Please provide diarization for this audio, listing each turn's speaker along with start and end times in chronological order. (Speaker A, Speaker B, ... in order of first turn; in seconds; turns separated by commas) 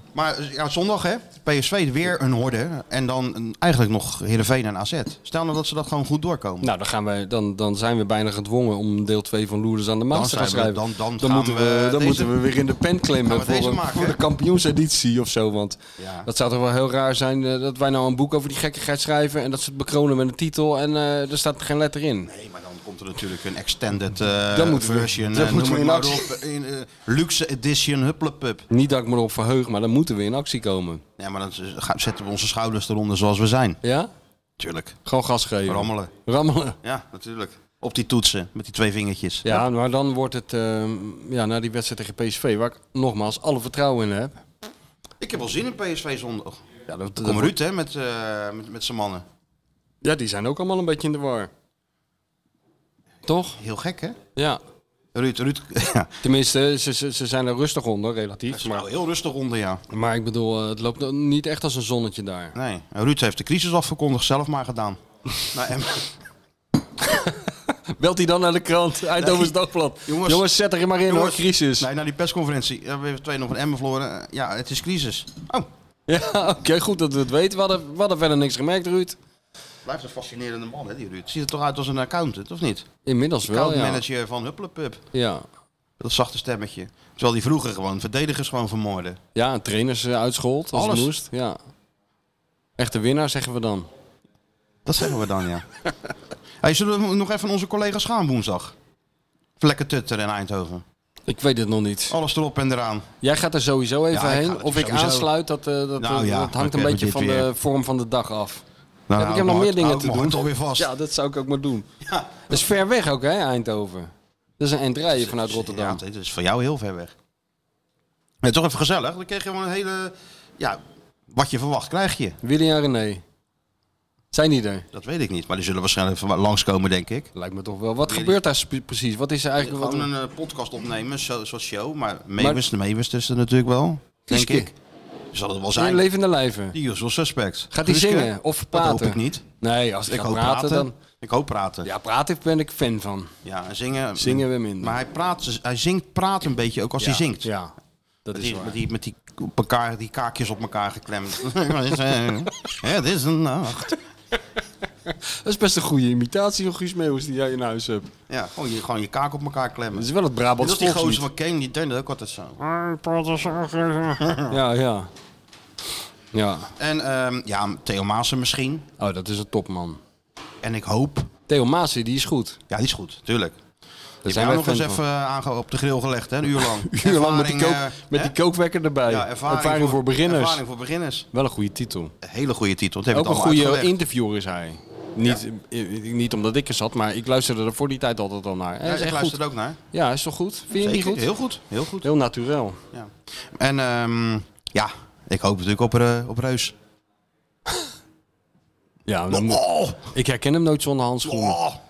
Speaker A: 0.1-6.7, Speaker B: 6.6-22.3, Speaker A: 10.1-12.3, Speaker A: 13.2-14.2, Speaker A: 16.0-16.3, Speaker A: 22.3-28.6, Speaker B: 24.5-26.3, Speaker B: 28.7-31.0, Speaker A: 31.2-33.8, Speaker B: 33.8-34.1, Speaker A: 34.6-35.0, Speaker B: 35.0-36.8, Speaker A: 35.7-36.1, Speaker A: 36.8-39.6, Speaker B: 39.5-44.4, Speaker A: 45.2-46.6, Speaker B: 46.9-47.5, Speaker A: 47.2-49.2, Speaker B: 50.0-51.5, Speaker B: 53.3-53.6, Speaker A: 53.6-54.2, Speaker A: 55.1-56.1, Speaker B: 56.2-58.9, Speaker A: 58.5-59.8, Speaker B: 59.9-62.5, Speaker A: 62.5-66.1, Speaker B: 68.0-71.9, Speaker A: 69.2-70.5, Speaker A: 71.1-75.7, Speaker B: 76.1-79.2, Speaker A: 79.8-82.9, Speaker B: 83.1-84.0, Speaker A: 83.4-85.0, Speaker B: 85.1-85.4, Speaker A: 86.0-89.2, Speaker B: 89.3-91.6, Speaker A: 90.7-91.1, Speaker B: 92.8-93.9, Speaker A: 94.8-95.7, Speaker A: 96.6-98.8, Speaker A: 99.6-100.8, Speaker B: 101.3-102.2, Speaker A: 102.1-103.1, Speaker B: 103.2-108.6, Speaker A: 104.1-105.3, Speaker A: 106.0-107.5, Speaker A: 109.1-110.9, Speaker B: 109.2-111.9, Speaker A: 112.0-112.6, Speaker B: 112.5-116.0, Speaker A: 115.1-117.1, Speaker A: 118.4-122.4, Speaker B: 122.4-123.2, Speaker B: 124.3-124.9, Speaker A: 124.9-127.3, Speaker B: 127.3-130.1, Speaker A: 128.0-128.4, Speaker A: 129.6-134.7, Speaker B: 134.3-134.7, Speaker A: 135.3-136.1, Speaker B: 135.8-136.8, Speaker A: 136.7-139.4, Speaker B: 137.7-140.9, Speaker A: 140.1-141.9, Speaker B: 141.8-143.3, Speaker A: 143.4-147.5, Speaker B: 144.2-145.0, Speaker B: 147.0-147.7, Speaker B: 148.3-148.8, Speaker A: 148.3-154.0, Speaker B: 155.4-158.1, Speaker A: 158.3-160.1, Speaker B: 159.9-161.2, Speaker A: 160.6-162.6, Speaker B: 162.6-165.1, Speaker A: 164.2-164.6, Speaker B: 166.3-166.7, Speaker A: 166.8-168.9, Speaker B: 169.0-170.0, Speaker A: 170.6-171.3, Speaker B: 171.5-172.6, Speaker A: 172.7-173.6, Speaker B: 174.2-175.0, Speaker A: 174.2-178.3, Speaker B: 176.8-180.6, Speaker A: 179.1-181.3, Speaker B: 181.3-182.1, Speaker A: 182.2-183.9, Speaker B: 183.1-189.4, Speaker A: 188.8-189.8, Speaker B: 189.9-191.3, Speaker A: 190.8-192.1, Speaker B: 192.0-192.8, Speaker A: 192.9-196.8, Speaker B: 199.1-201.6, Speaker A: 199.3-200.0, Speaker A: 201.2-201.8